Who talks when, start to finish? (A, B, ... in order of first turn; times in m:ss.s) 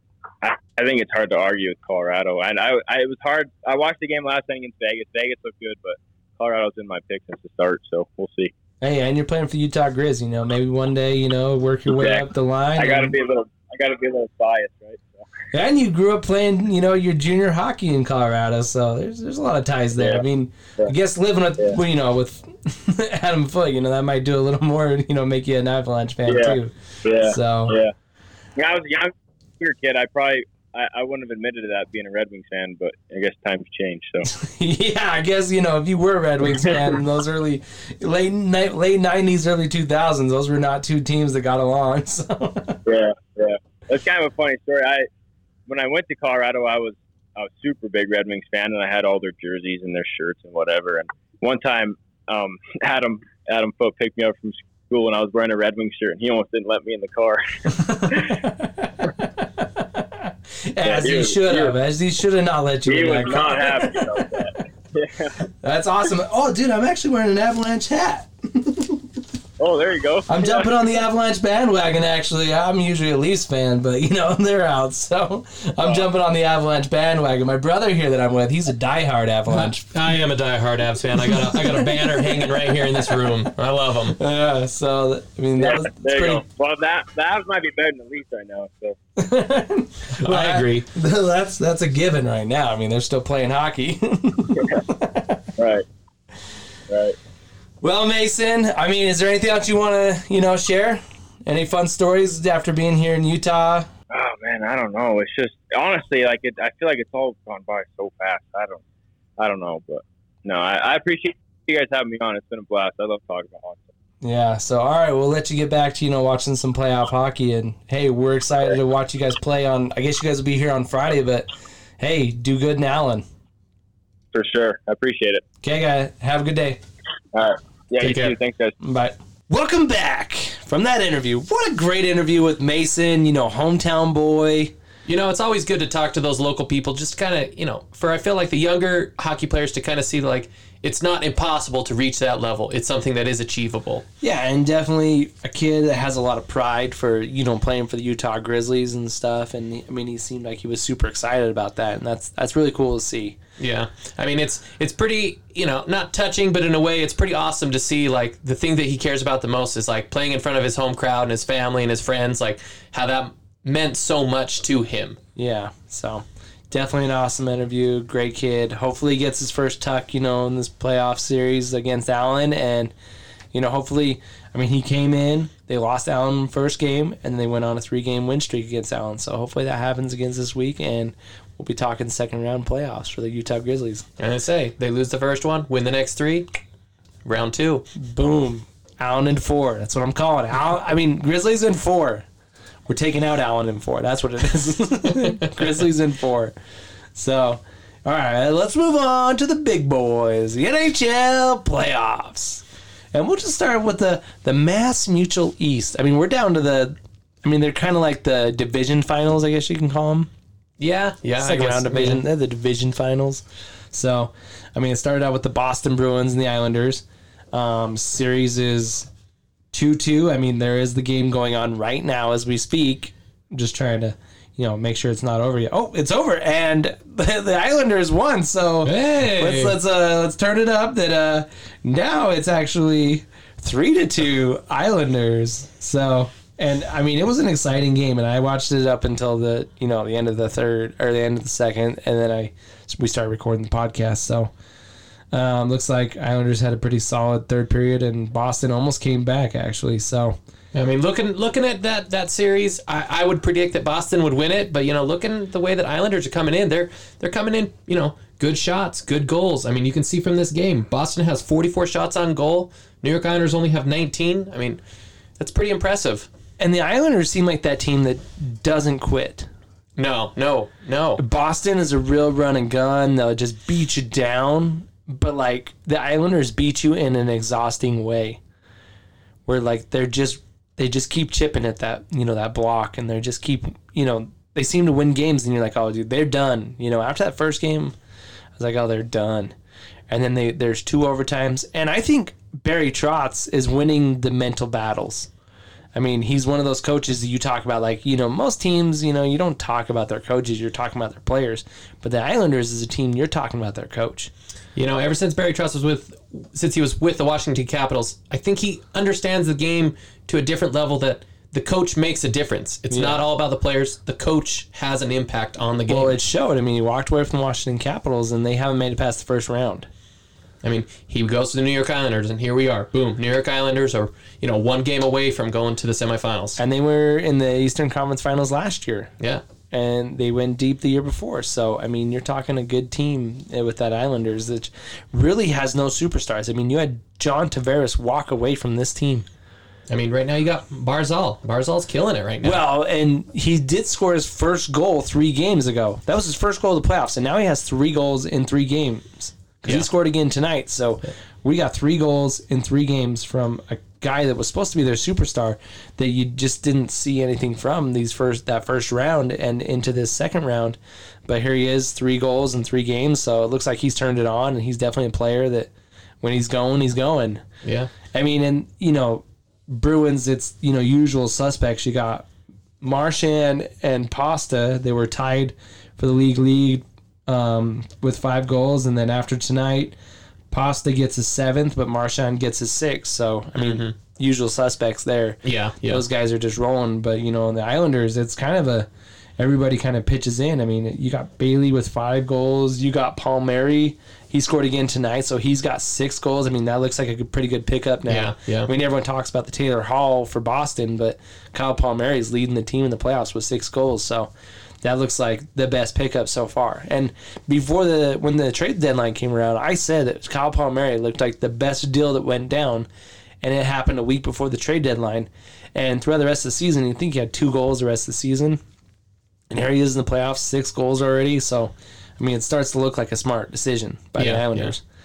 0:00.4-0:08.5 A
0:08.8-0:13.2 B
0:11.9-0:15.3 A
0:15.5-0:27.8 B
0:20.0-0:20.2 A
0:26.3-0:27.9 A
0:28.6-0:34.3 A
0:34.3-0:42.8 B
0:42.9-0:45.1 A
0:45.7-0:58.4 A
0:57.7-1:04.3 B
1:00.8-1:01.7 A
1:02.9-1:05.4 A
1:05.6-1:09.0 B
1:09.6-1:10.8 A
1:10.3-1:19.9 B
1:19.5-1:24.2 C
1:21.3-1:23.2 B
1:24.2-1:26.4 B
1:25.6-1:29.0 A
1:29.2-1:35.5 B
1:30.2-1:30.9 C
1:35.6-1:35.8 A
1:36.9-1:37.2 A
1:37.8-1:43.9 B
1:44.1-1:48.8 A
1:49.4-1:53.9 A
1:54.2-2:01.5 B
2:02.0-2:03.2 B
2:04.3-2:05.4 A
2:05.6-2:06.8 B
2:07.3-2:08.8 A
2:08.0-2:08.4 C
2:08.8-2:14.7 B
2:15.1-2:24.0 C
2:24.2-2:33.4 B
2:33.6-2:45.2 C
2:45.4-2:52.9 B
2:53.5-3:04.1 B
3:04.2-3:06.5 C
3:07.2-3:07.9 C
3:08.0-3:12.3 B
3:12.9-3:16.5 B
3:17.2-3:30.3 B
3:30.8-3:32.2 C
3:31.4-3:39.1 B
3:39.7-4:04.5 B
3:48.8-3:49.8 C
4:05.3-4:10.4 B
4:10.7-4:24.8 C
4:25.4-4:26.3 C
4:26.6-4:29.5 B
4:30.0-4:31.2 C
4:31.2-4:38.4 B
4:39.5-4:48.0 B
4:48.6-4:49.5 B
4:50.1-4:55.3 B
4:55.9-5:04.3 B
5:04.8-5:16.2 C
5:12.9-5:13.2 B
5:15.9-5:19.9 B
5:20.6-5:26.6 C
5:26.6-5:29.1 B
5:29.7-5:39.3 B
5:39.9-5:42.6 C
5:42.4-6:05.7 B
6:06.2-6:07.4 B
6:07.6-6:07.9 C
6:08.1-6:12.3 B
6:12.8-6:20.0 B
6:20.5-6:28.9 B
6:23.6-6:23.9 C
6:25.4-6:26.0 C
6:29.4-6:44.3 B
6:38.1-6:38.7 C
6:44.8-6:52.9 B
6:53.4-6:58.6 B
6:59.5-7:04.8 B
7:04.2-7:04.8 C